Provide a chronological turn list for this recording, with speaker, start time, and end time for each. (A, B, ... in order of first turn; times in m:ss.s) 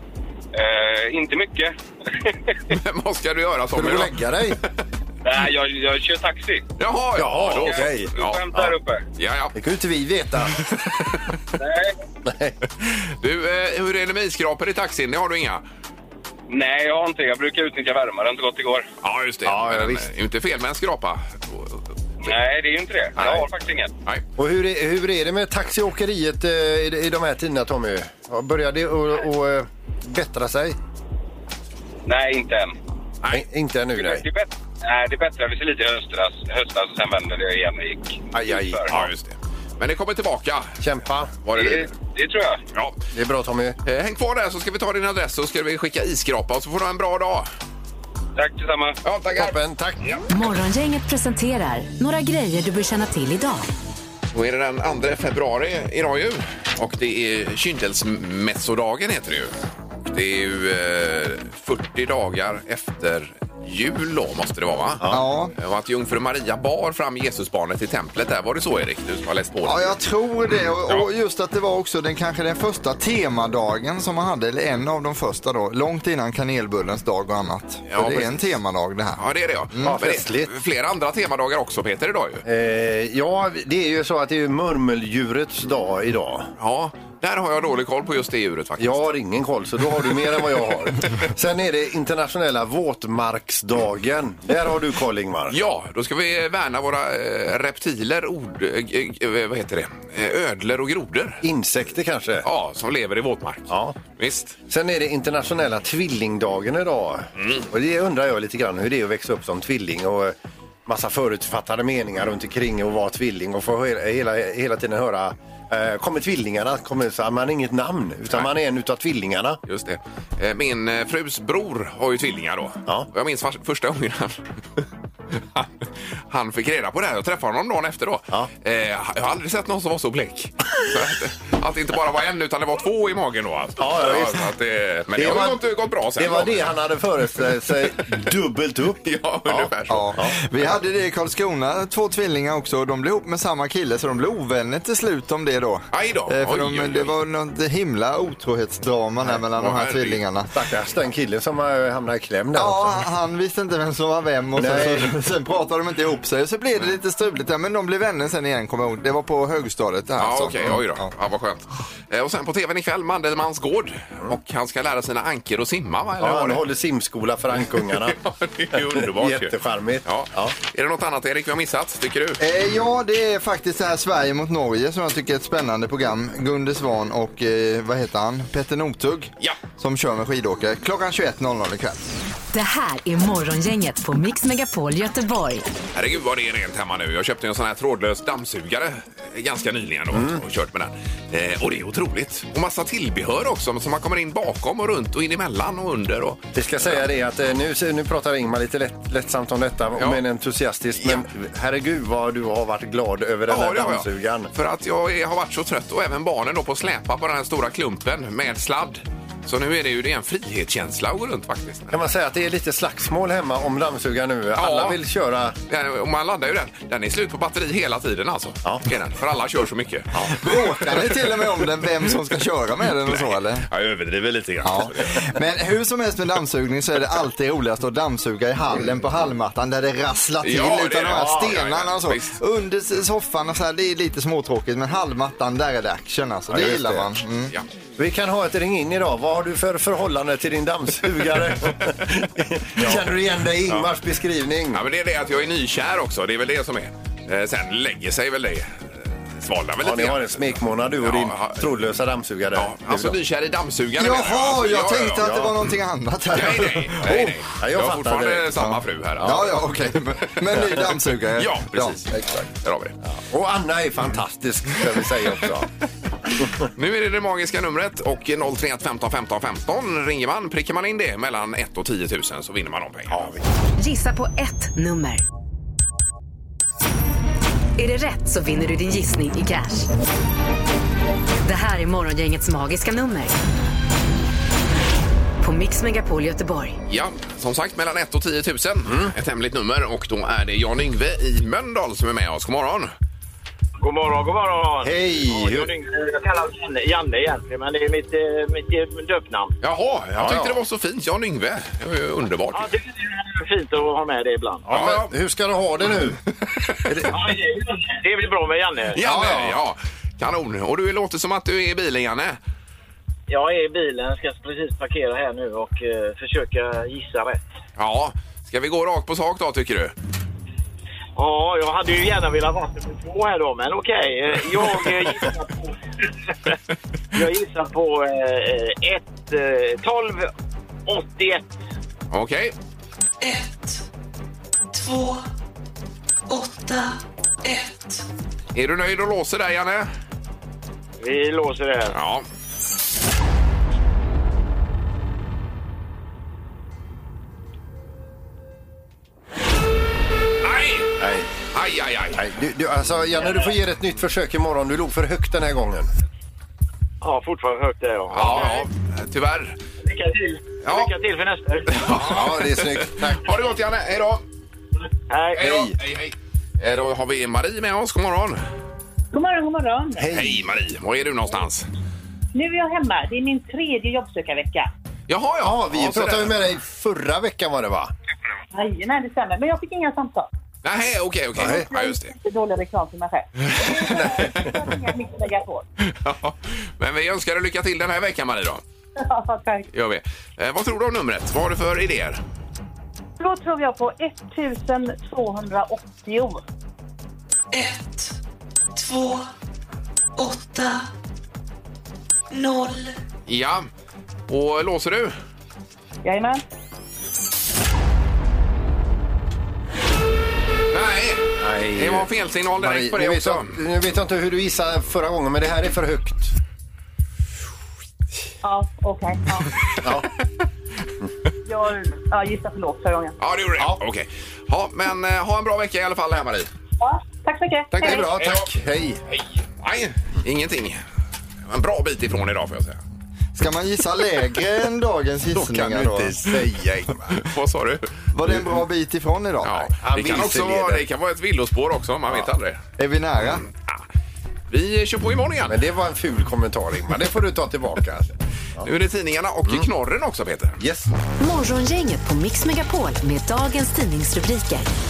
0:00.5-0:02.6 A
0:02.7-0:04.7 B
0:03.7-0:04.6 C
0:05.2-0:06.6 A
0:06.8-0:08.4 B
0:07.1-0:08.7 C
0:07.5-0:09.0 A
0:09.2-0:09.6 B
0:09.5-0:10.6 C
0:10.7-0:11.2 B
0:11.6-0:11.9 A
0:12.2-0:12.6 C
0:12.8-0:15.6 B
0:16.5-0:18.9 A
0:19.0-0:21.8 B
0:19.4-0:20.1 C
0:22.2-0:23.9 A
0:23.2-0:23.4 B
0:24.4-0:30.8 C
0:32.0-0:32.8 A
0:33.3-0:34.2 C
0:34.0-0:39.0 A
0:38.3-0:39.0 C
0:38.9-0:40.8 B
0:40.8-0:41.4 C
0:41.4-0:41.9 B
0:41.5-0:42.6 A
0:43.1-0:43.8 C
0:43.8-0:47.5 B
0:48.4-0:49.0 A
0:49.0-0:49.6 B
0:49.4-0:50.2 C
0:50.3-0:53.7 D
0:54.3-0:59.5 B
1:00.1-1:10.0 B
1:05.1-1:05.5 E
1:09.6-1:19.2 E
1:17.9-1:18.4 B
1:19.2-1:22.4 B
1:19.8-1:20.5 C
1:22.4-1:26.5 C
1:26.6-1:29.0 B
1:28.8-1:35.6 C
1:35.5-1:41.4 B
1:41.4-1:42.5 C
1:42.4-1:44.6 B
1:43.7-1:44.0 C
1:44.7-1:59.6 C
1:47.4-1:47.7 B
1:59.7-2:16.7 B
2:13.8-2:14.5 C
2:15.1-2:15.6 C
2:16.1-2:20.4 C
2:19.0-2:20.2 B
2:19.9-2:30.5 E
2:25.9-2:27.1 B
2:29.6-2:30.2 B
2:30.5-2:33.0 C
2:32.6-2:41.1 E
2:34.6-2:35.2 C
2:40.2-2:46.6 B
2:46.2-2:48.2 C
2:48.0-2:52.4 B
2:48.8-2:50.5 C
2:52.4-3:02.0 E
3:02.5-3:05.7 D
3:05.9-3:17.0 B
3:10.1-3:10.4 C
3:16.5-3:24.5 C
3:23.5-3:32.0 B
3:31.9-3:35.6 C
3:34.5-3:35.0 B
3:35.7-3:41.6 B
3:40.1-3:40.4 C
3:40.3-3:43.7 E
3:43.0-3:45.3 B
3:44.6-3:57.5 E
3:50.4-3:52.4 B
3:51.1-3:51.6 C
3:56.5-3:57.1 C
3:58.0-4:04.8 C
4:04.7-4:11.7 B
4:09.8-4:13.2 C
4:12.5-4:15.3 B
4:14.0-4:17.3 E
4:15.2-4:15.6 C
4:16.3-4:20.7 B
4:17.6-4:18.5 C
4:18.6-4:22.5 E
4:21.4-4:23.0 B
4:23.1-4:25.7 C
4:26.4-4:26.7 C
4:26.7-4:33.3 B
4:33.1-4:33.4 C
4:33.8-4:35.2 D
4:37.8-4:39.9 D
4:41.4-4:43.4 D
4:45.4-4:46.8 D
4:46.9-4:52.9 B
4:48.8-4:49.1 C
4:53.8-4:59.5 F
4:54.8-4:55.7 C
4:59.6-5:02.7 B
5:00.2-5:00.6 C
5:02.5-5:04.7 F
5:04.7-5:06.2 C
5:04.7-5:05.1 B
5:06.7-5:07.0 B
5:06.8-5:07.1 C
5:07.1-5:09.0 F
5:08.9-5:12.4 B
5:09.0-5:09.5 C
5:13.3-5:17.4 F
5:17.8-5:19.9 B
5:21.2-5:25.7 F
5:27.1-5:30.3 F
5:30.9-5:31.6 F
5:32.1-5:32.5 B
5:33.2-5:33.8 G
5:34.7-5:35.2 G
5:36.3-5:38.0 G
5:38.5-5:39.9 B
5:41.0-5:41.9 F
5:41.9-5:42.2 B
5:50.4-5:50.9 B
5:51.0-5:51.3 C
5:51.5-5:52.2 B
5:52.1-5:55.9 C
5:57.0-5:58.6 F
5:58.1-5:59.6 B
5:59.8-6:01.8 F
6:00.6-6:01.0 B
6:01.7-6:04.2 B
6:01.9-6:03.3 C
6:05.1-6:05.4 F
6:05.3-6:08.4 B
6:05.4-6:05.7 C
6:09.1-6:10.1 H
6:10.0-6:10.4 C
6:10.1-6:11.7 B
6:12.3-6:14.7 H
6:15.1-6:16.4 B
6:15.4-6:17.9 C
6:18.5-6:20.3 H
6:20.6-6:22.1 B
6:21.4-6:21.6 C
6:21.4-6:25.6 H
6:23.7-6:24.4 B
6:25.8-6:28.6 B
6:29.0-6:29.7 H
6:29.7-6:32.2 B
6:33.2-6:36.4 H
6:37.5-6:38.1 G
6:38.7-6:39.3 G
6:40.2-6:40.9 G
6:42.3-6:42.9 G
6:43.3-6:43.7 B
6:44.3-6:45.1 B
6:46.0-6:46.4 H
6:50.7-6:53.5 B
6:51.4-6:56.3 C
6:58.4-6:59.5 H
6:59.8-7:00.1 C
7:01.4-7:03.1 H
7:03.2-7:06.5 B
7:06.8-7:08.1 H
7:07.7-7:08.5 B
7:07.8-7:09.0 C
7:09.1-7:10.8 B
7:11.5-7:12.8 B
7:13.4-7:16.1 E
7:15.4-7:17.2 C
7:17.1-7:17.9 B
7:18.1-7:19.6 E
7:19.4-7:22.6 B
7:19.7-7:20.8 C
7:22.8-7:23.4 E
7:23.4-7:23.8 B
7:24.5-7:25.6 B
7:25.4-7:28.7 C
7:28.6-7:30.6 B
7:30.6-7:30.9 C
7:31.2-7:34.7 D